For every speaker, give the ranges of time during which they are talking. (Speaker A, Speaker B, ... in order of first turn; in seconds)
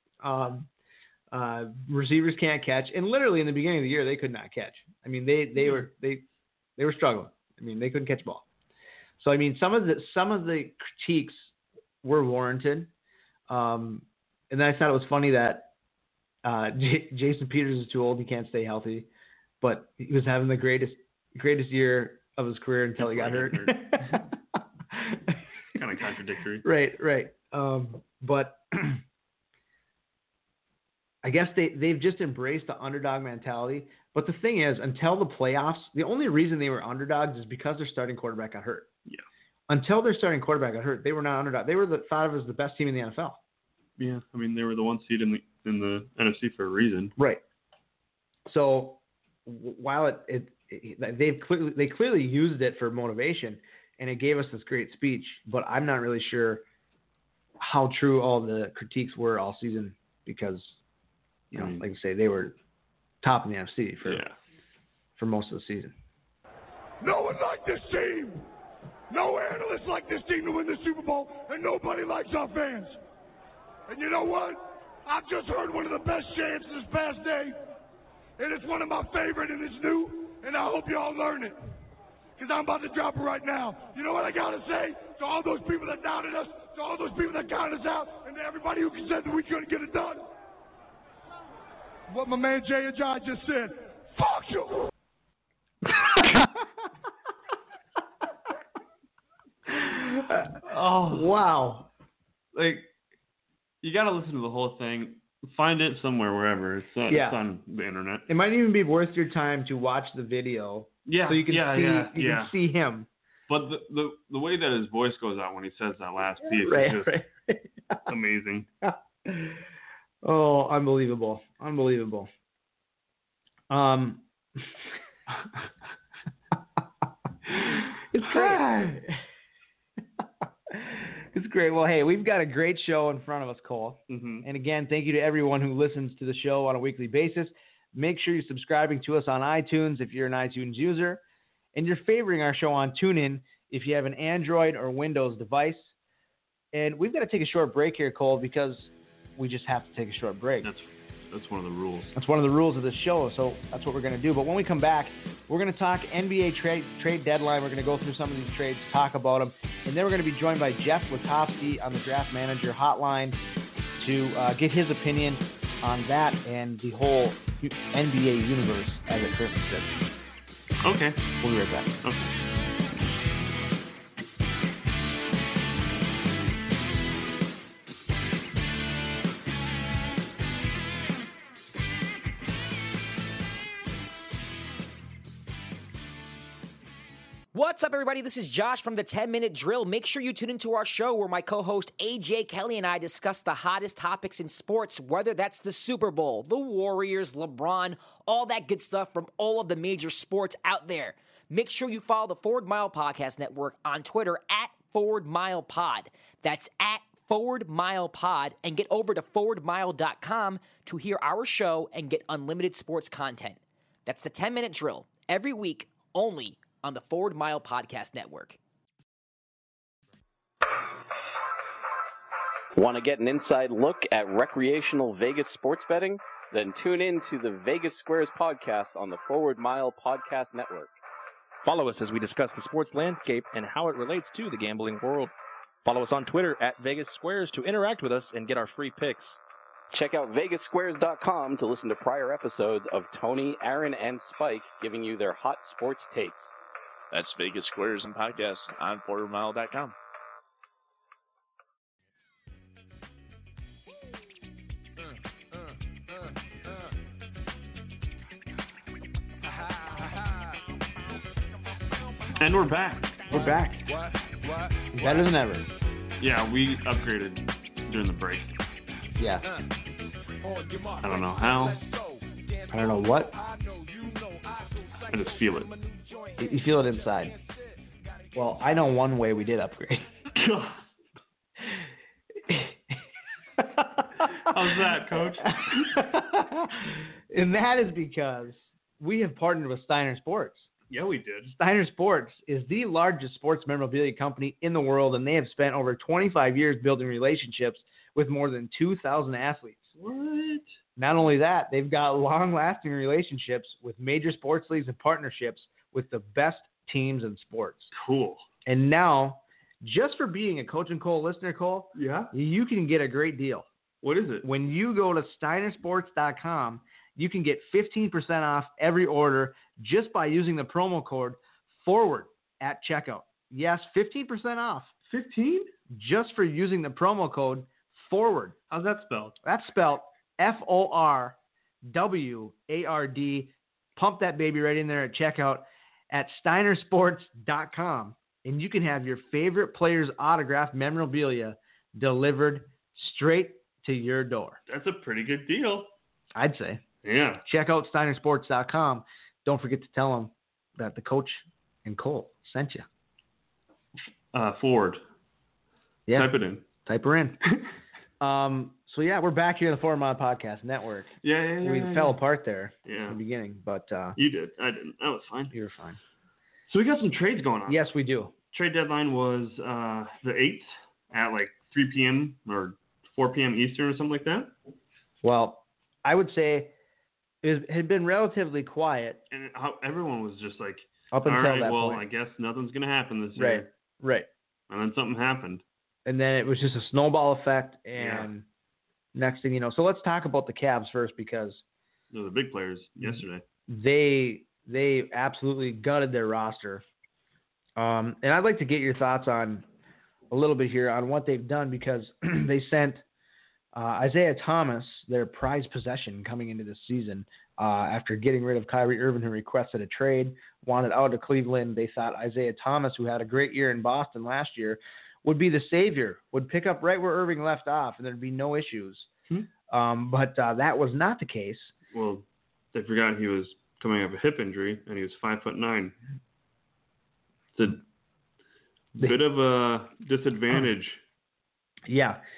Speaker A: 0.2-0.7, 1.3-6.2, 6.8-8.4, 9.2-11.5, 12.0-12.9, 13.5-15.7, 16.4-19.1, 19.6-24.3, 24.9-25.4, 26.6-29.0, 31.2-38.9, 39.7-43.4, 48.5-56.6, 57.6-60.8, 61.5-62.5, 63.2-64.2, 65.2-65.9, 96.0-96.5, 99.7-101.9, 107.1-107.4, 108.3-113.1, 116.4-118.1, 118.8-119.6, 120.2-122.3, 123.7-124.6, 127.5-129.2, 130.7-141.2, 141.7-145.9, 146.7-150.7, 152.1-163.4, 164.0-170.0, 171.4-171.9, 263.3-263.8, 264.9-265.6, 269.2-269.4, 272.7-273.3, 276.4-277.3, 278.3-280.1, 282.5-282.7, 283.6-284.5, 285.4-290.7, 291.5-299.9, 301.0-307.9, 308.6-313.6, 314.4-324.9, 325.9-328.6, 329.4-344.6, 346.3-346.8, 347.4-352.9, 356.1-357.4, 358.2-364.2, 365.5-366.0, 367.7-368.3, 375.2-376.7, 377.4-379.2, 381.1-382.0, 383.4-384.3, 386.1-388.4, 389.1-391.6, 393.0-396.8, 397.8-399.6, 400.3-403.0, 403.7-419.1, 419.7-421.7, 431.9-432.2
Speaker B: 23.0-24.2, 25.7-26.6, 44.0-47.1, 61.5-61.8, 64.0-64.3, 100.6-101.3, 102.5-102.8, 103.8-108.2, 111.0-112.5, 113.5-117.1, 118.1-118.7, 128.2-128.7, 134.1-134.5, 150.6-152.1, 170.8-171.4, 172.0-172.3, 262.4-263.3, 266.2-268.6, 271.0-271.9, 275.1-275.7, 280.3-280.8, 284.4-285.6, 290.9-291.5, 300.0-300.7, 307.9-308.4, 311.9-312.3, 314.0-314.4, 325.1-325.7, 328.7-329.4, 344.7-345.9, 347.0-347.4, 354.3-355.0, 356.1-356.6, 361.2-362.2, 362.9-363.2, 364.1-365.5, 366.7-367.8, 368.5-374.5, 379.3-383.7, 384.7-385.6, 387.9-388.3, 392.1-393.4, 421.9-425.9, 427.5-427.8, 429.0-431.0
Speaker C: 67.0-68.5, 69.1-73.0, 73.9-77.6, 78.4-81.6, 82.4-90.3, 92.1-94.9
Speaker D: 187.5-218.6
Speaker E: 222.7-230.9, 239.9-246.5
Speaker F: 231.6-235.3, 235.8-239.4
Speaker G: 247.1-249.9